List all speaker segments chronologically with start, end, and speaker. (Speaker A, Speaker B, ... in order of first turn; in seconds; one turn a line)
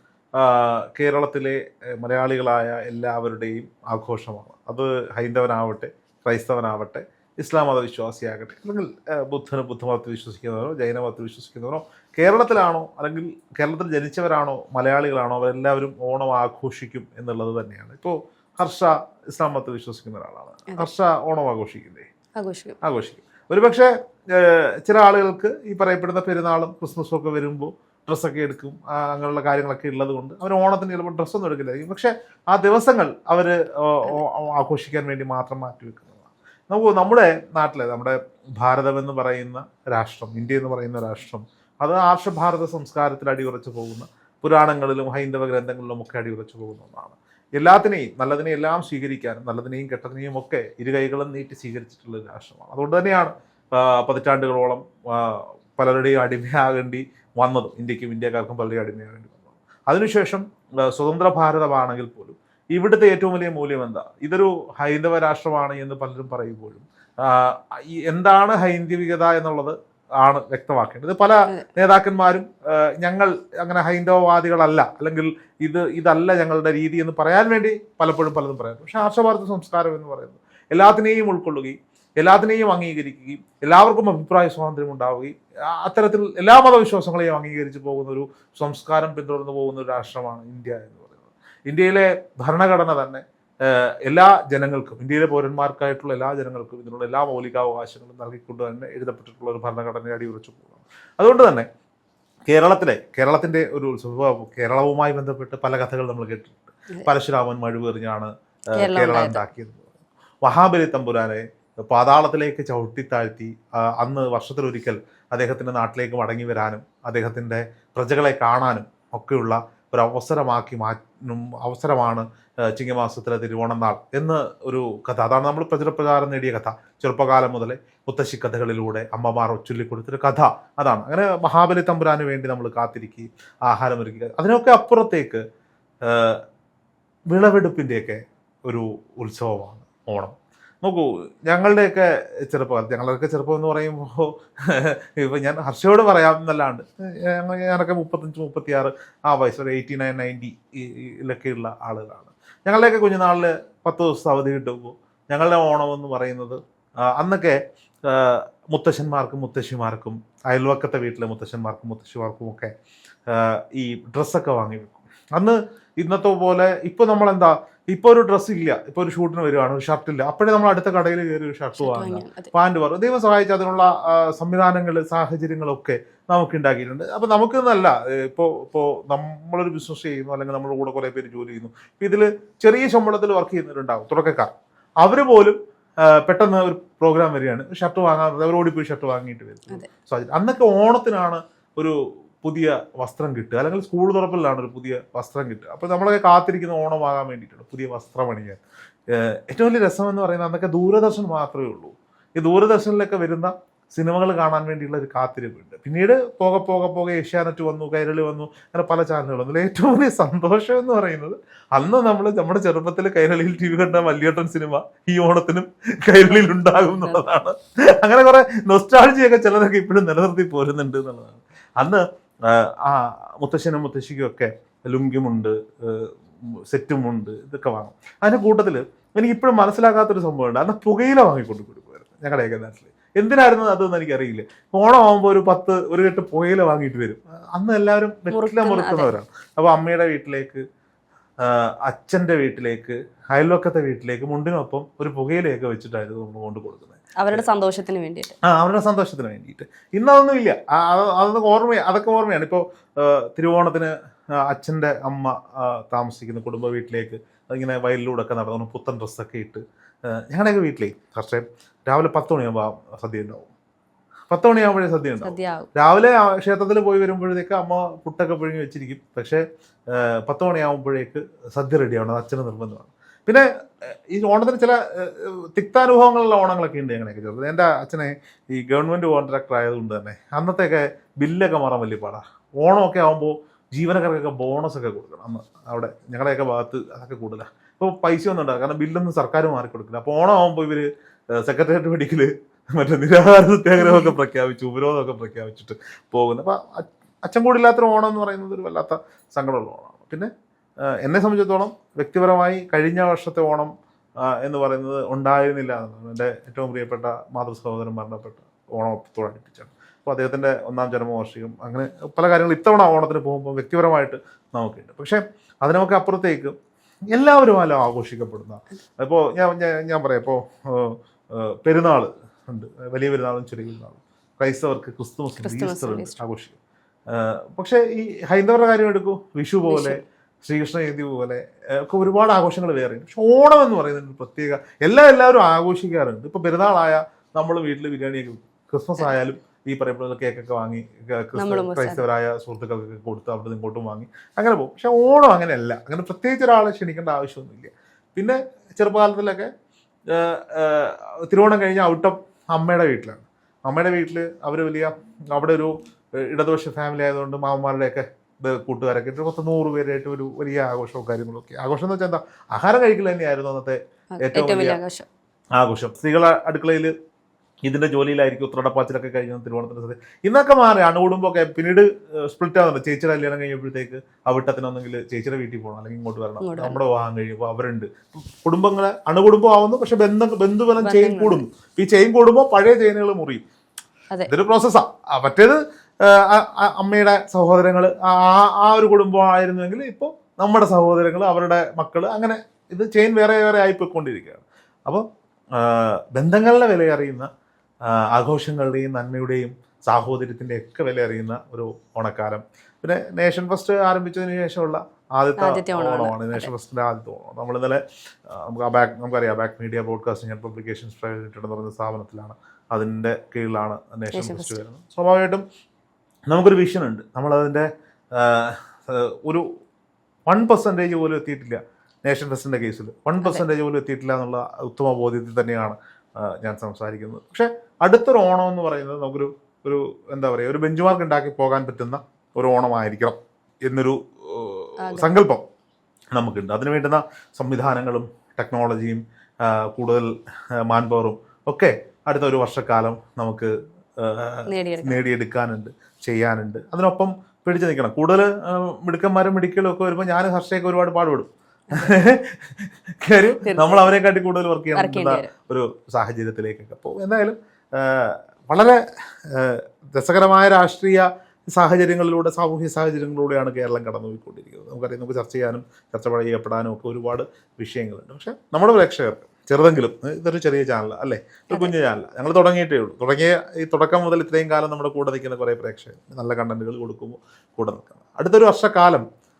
Speaker A: 0.4-22.1
Speaker B: 22.4-22.8
Speaker A: 22.8-101.7
Speaker A: 102.5-109.9
Speaker B: 108.8-109.5
Speaker A: 110.4-135.4
Speaker A: 136.0-136.4
Speaker A: 137.3-156.6
Speaker A: 157.1-162.7
Speaker A: 163.3-184.5
Speaker B: 171.8-172.5
Speaker A: 185.0-185.5
Speaker A: 186.1-226.1
Speaker B: 216.3-217.2
Speaker A: 226.7-240.6
Speaker B: 238.3-239.1
Speaker A: 241.4-247.4
Speaker B: 247.2-248.3
Speaker A: 248.4-253.9
Speaker A: 254.4-259.6
Speaker A: 260.1-263.5
Speaker A: 264.3-300.3
Speaker B: 265.2-265.7
Speaker B: 293.8-294.2
Speaker A: 301.0-303.7
Speaker A: 304.2-316.6
Speaker A: 317.1-326.6
Speaker B: 325.4-326.1
Speaker A: 327.1-349.5
Speaker B: 329.7-330.0
Speaker B: 341.4-342.0
Speaker A: 350.1-364.8
Speaker B: 364.1-365.1
Speaker A: 365.6-366.9
Speaker A: 367.6-383.4
Speaker B: 376.4-376.8
Speaker B: 380.8-381.4
Speaker A: 384.3-397.3
Speaker A: 397.9-415.4
Speaker B: 405.4-406.5
Speaker B: 414.1-414.6
Speaker A: 416.3-419.4
Speaker A: 420.3-435.4
Speaker B: 434.8-435.1
Speaker A: 436.1-440.1
Speaker A: 440.6-479.0
Speaker B: 444.5-445.0
Speaker B: 451.7-452.0
Speaker B: 453.3-453.9
Speaker B: 454.7-455.3